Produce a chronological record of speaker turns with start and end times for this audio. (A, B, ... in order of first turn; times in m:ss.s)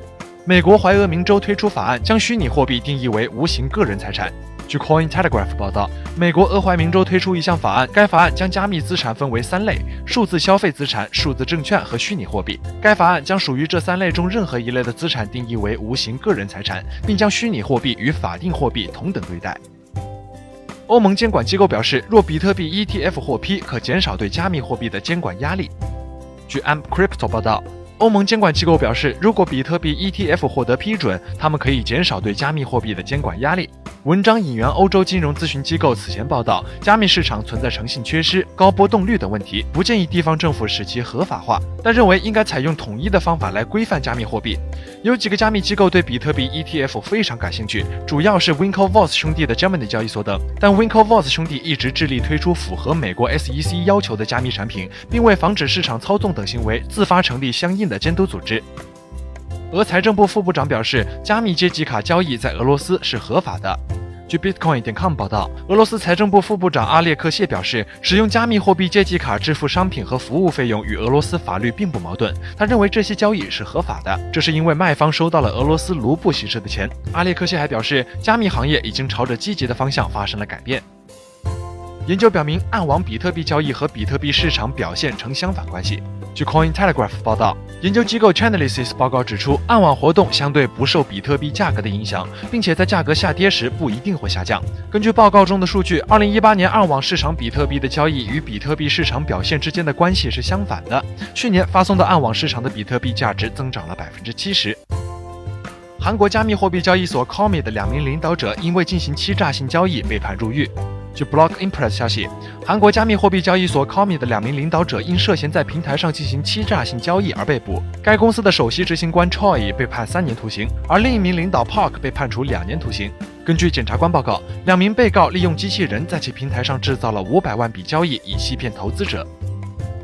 0:00.4-0:19.6 A
0:20.9-0:25.7 A
0:26.5-0:58.6 A
0:59.7-1:20.8 A
1:22.0-1:44.8 A
1:46.0-2:09.3 A